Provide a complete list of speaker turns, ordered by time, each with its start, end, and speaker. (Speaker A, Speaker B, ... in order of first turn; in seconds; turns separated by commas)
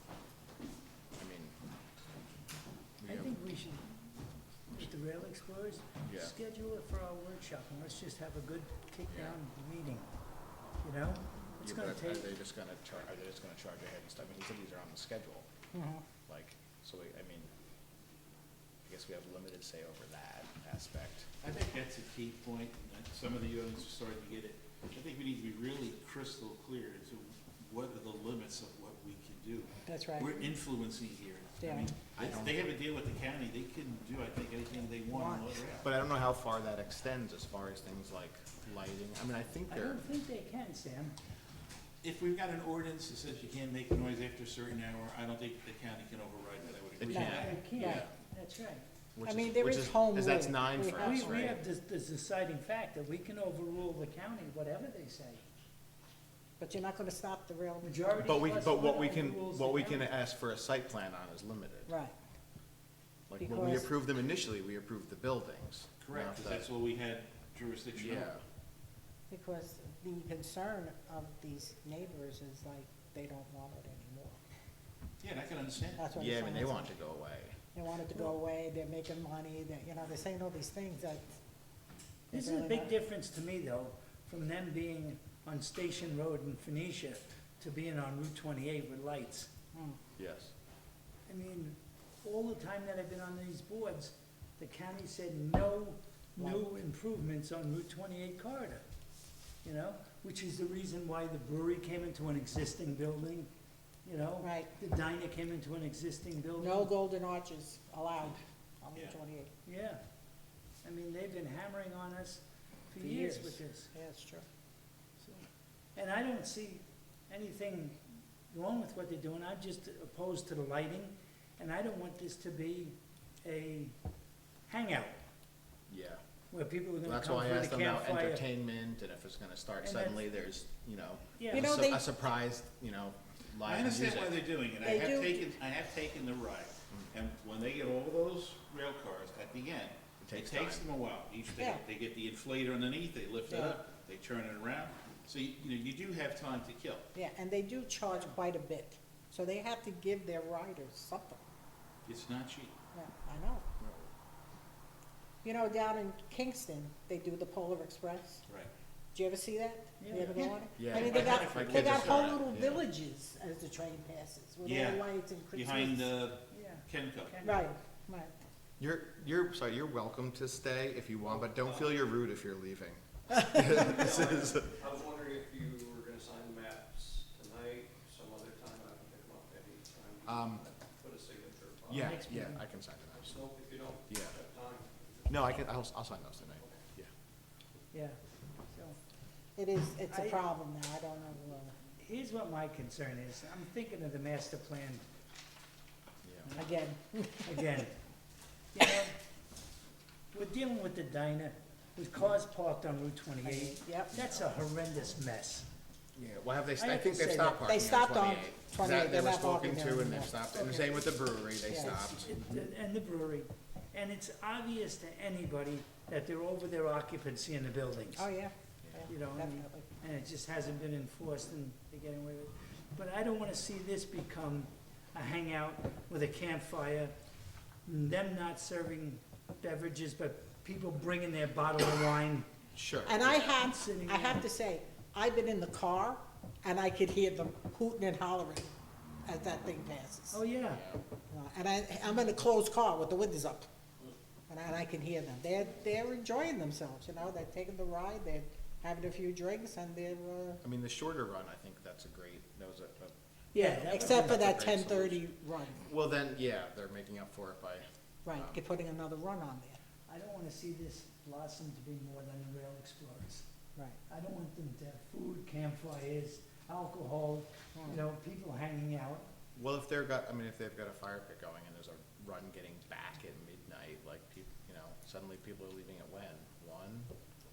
Speaker A: 1.2-1.5, Speaker A: 3.0-3.3, Speaker B: 3.1-3.9, Speaker B: 4.8-10.1, Speaker A: 6.0-6.3, Speaker A: 9.1-9.4, Speaker B: 10.8-12.2, Speaker A: 11.6-15.5, Speaker C: 15.7-16.0, Speaker A: 16.3-17.5, Speaker A: 18.9-21.3, Speaker D: 21.4-35.9, Speaker C: 29.9-30.5, Speaker C: 31.6-31.9, Speaker A: 32.2-32.7, Speaker C: 35.1-35.5, Speaker A: 35.8-40.0, Speaker B: 39.7-41.2, Speaker D: 42.0-48.1, Speaker A: 47.0-48.1, Speaker C: 47.1-48.1, Speaker B: 47.5-48.8, Speaker A: 49.1-51.6, Speaker C: 49.2-51.6, Speaker B: 51.0-55.4, Speaker C: 56.6-58.0, Speaker B: 57.8-60.0, Speaker A: 58.2-61.9, Speaker C: 61.9-62.1, Speaker A: 63.3-66.7, Speaker C: 63.4-63.9, Speaker D: 66.0-68.3, Speaker A: 68.0-68.4, Speaker C: 69.3-74.4, Speaker D: 75.2-76.0, Speaker C: 76.0-76.9, Speaker A: 76.2-77.6, Speaker C: 77.8-81.3, Speaker C: 82.3-82.9, Speaker B: 82.3-89.5, Speaker A: 90.2-90.5, Speaker B: 91.3-98.8, Speaker B: 99.6-103.5, Speaker B: 104.0-106.9, Speaker C: 104.4-104.7, Speaker C: 106.6-109.5, Speaker B: 109.7-110.0, Speaker B: 110.8-113.9, Speaker C: 113.0-114.5, Speaker B: 115.2-123.9, Speaker B: 124.7-125.2, Speaker A: 125.9-126.2, Speaker B: 126.5-128.4, Speaker A: 127.0-134.3, Speaker B: 129.8-130.2, Speaker C: 131.5-132.0, Speaker D: 133.6-147.1, Speaker C: 134.8-135.5, Speaker A: 140.2-140.9, Speaker C: 143.5-143.8, Speaker C: 147.1-151.4, Speaker D: 152.1-152.8, Speaker C: 152.9-153.6, Speaker A: 153.8-154.1, Speaker C: 155.4-158.4, Speaker C: 159.1-166.1, Speaker B: 160.0-160.3, Speaker D: 160.2-162.7, Speaker A: 160.8-162.8, Speaker D: 164.6-167.4, Speaker B: 166.5-167.6, Speaker C: 167.4-168.3, Speaker A: 168.8-174.8, Speaker E: 173.7-182.1, Speaker A: 180.2-180.7, Speaker A: 181.9-183.5, Speaker B: 182.0-182.6, Speaker E: 183.3-185.4, Speaker A: 184.1-184.4, Speaker A: 185.3-187.1, Speaker B: 187.9-188.2, Speaker C: 189.6-191.8, Speaker B: 192.0-195.1, Speaker A: 196.2-196.5, Speaker C: 196.6-197.7, Speaker B: 197.5-197.9, Speaker B: 198.7-199.2, Speaker B: 200.3-205.7, Speaker C: 203.4-204.1, Speaker A: 204.1-204.5, Speaker A: 206.2-212.4, Speaker B: 206.8-207.6, Speaker C: 207.6-210.4, Speaker C: 211.7-212.0, Speaker B: 212.3-218.2, Speaker C: 218.1-219.9, Speaker A: 218.8-219.1, Speaker B: 219.1-227.1, Speaker B: 227.9-232.5, Speaker A: 232.7-233.5, Speaker C: 233.1-238.7, Speaker B: 233.4-234.4, Speaker C: 239.3-240.4, Speaker B: 240.3-240.8, Speaker A: 240.7-241.0, Speaker C: 241.3-243.7, Speaker C: 244.5-250.6, Speaker A: 250.6-255.2, Speaker C: 253.5-255.9, Speaker A: 255.8-258.6, Speaker C: 258.2-259.8, Speaker B: 260.1-263.4, Speaker B: 264.1-269.3, Speaker A: 269.6-277.1